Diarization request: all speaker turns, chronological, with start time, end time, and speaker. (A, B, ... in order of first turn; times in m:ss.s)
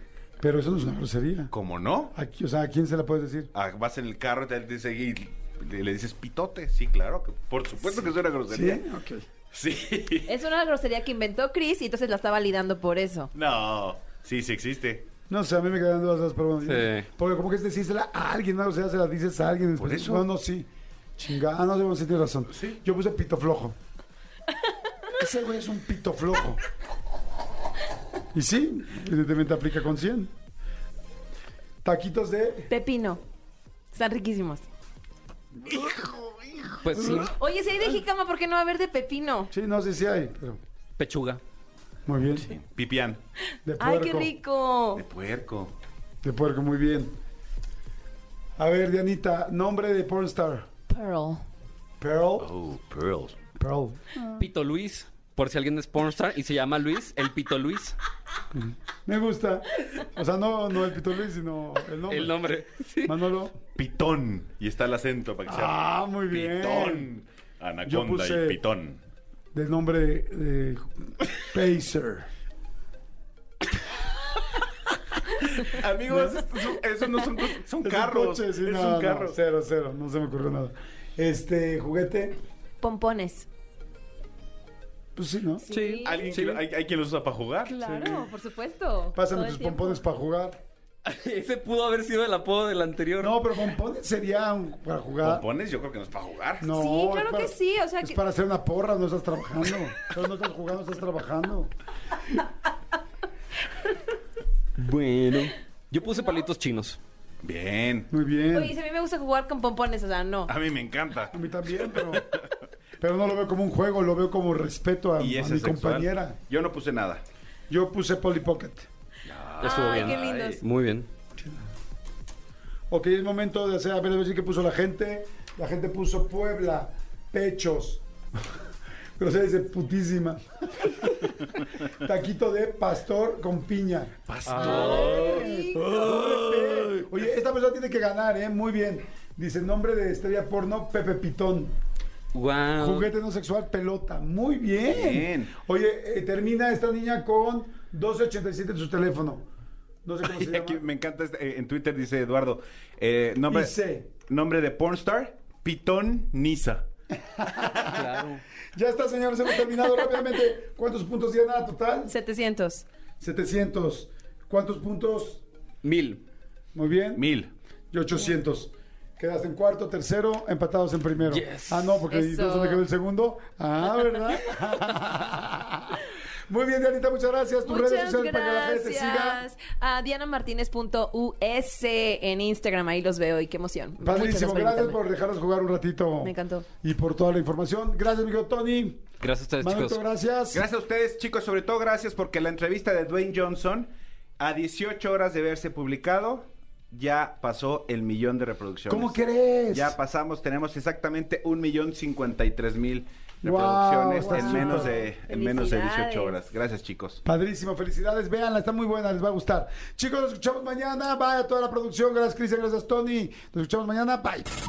0:00.4-0:01.5 A
0:01.5-0:02.1 B
0:02.1-0:03.5 A
0:03.5-0:08.8 B
0:08.5-0:09.2 A
0:09.5-0:10.3 B
0:10.3-0:13.3 C
0:13.3-0:15.0 B
0:15.3-0:23.8 A
0:16.6-0:17.1 D
0:19.8-0:20.3 B
0:25.2-0:26.6 A
0:28.3-0:30.3 A
0:31.8-0:32.7 A
0:32.7-0:33.2 C
0:33.9-0:34.6 C
0:35.6-0:36.0 A
0:35.7-0:36.8 B
0:36.8-0:37.3 D
0:36.9-0:37.3 A
0:37.2-0:39.5 C
0:39.5-0:40.6 A
0:41.0-0:41.4 D
0:42.0-0:42.5 A
0:42.4-0:43.2 B
0:43.6-0:44.3 A
0:43.8-0:45.0 C
0:44.9-0:45.7 B
0:46.2-0:47.2 A
0:48.6-0:50.7 A
0:50.9-0:51.4 C
0:52.0-0:52.5 A
0:52.4-0:53.3 B
0:53.6-0:54.1 A
0:54.4-0:58.0 D
0:58.5-1:02.4 A
1:02.1-1:03.2 D
1:03.0-1:03.6 A
1:03.7-1:09.0 B
1:05.4-1:07.1 A
1:07.8-1:08.6 A
1:09.5-1:12.3 A
1:15.6-1:19.4 B
1:16.1-1:16.4 A
1:17.8-1:22.4 A
1:22.8-1:23.5 C
1:25.2-1:25.6 A
1:25.6-1:26.4 C
1:25.7-1:26.6 D
1:26.0-1:27.7 B
1:27.6-1:30.0 C
1:27.8-1:28.3 A
1:29.1-1:30.6 A
1:31.0-1:33.5 D
1:33.2-1:35.4 A
1:35.2-1:36.7 B
1:36.6-1:41.7 A
1:36.7-1:38.2 C
1:44.8-1:47.0 D
1:47.4-1:48.1 B
1:48.1-1:48.7 A
1:48.5-1:50.5 C
1:50.5-1:52.5 B
1:51.3-1:52.3 A
1:53.0-1:56.4 A
1:55.2-1:57.2 B
1:57.7-1:58.9 A
1:59.2-2:00.6 B
1:59.6-2:00.6 C
1:59.6-2:01.1 D
2:01.4-2:01.6 A
2:02.9-2:08.5 A
2:09.2-2:11.4 A
2:11.9-2:21.7 A
2:14.3-2:15.5 B
2:14.5-2:17.1 D
2:14.6-2:15.8 C
2:22.3-2:23.1 D
2:22.8-2:29.4 A
2:24.8-2:25.5 B
2:30.0-2:30.8 A
2:30.2-2:33.7 B
2:33.5-2:34.1 A
2:34.3-2:36.8 B
2:37.2-2:37.9 A
2:37.8-2:38.4 D
2:38.7-2:42.1 A
2:42.1-2:42.8 C
2:43.2-2:45.4 A
2:45.8-2:46.2 D
2:46.7-2:47.2 A
2:47.2-2:47.5 B
2:47.9-2:59.4 A
2:51.3-2:52.0 D
2:52.1-2:52.8 C
2:57.6-3:05.0 C
3:04.0-3:10.6 A
3:06.2-3:06.7 C
3:09.2-3:10.0 D
3:10.5-3:19.2 B
3:18.9-3:20.0 A
3:19.7-3:27.2 B
3:23.4-3:24.9 A
3:24.2-3:26.4 C
3:27.2-3:34.5 A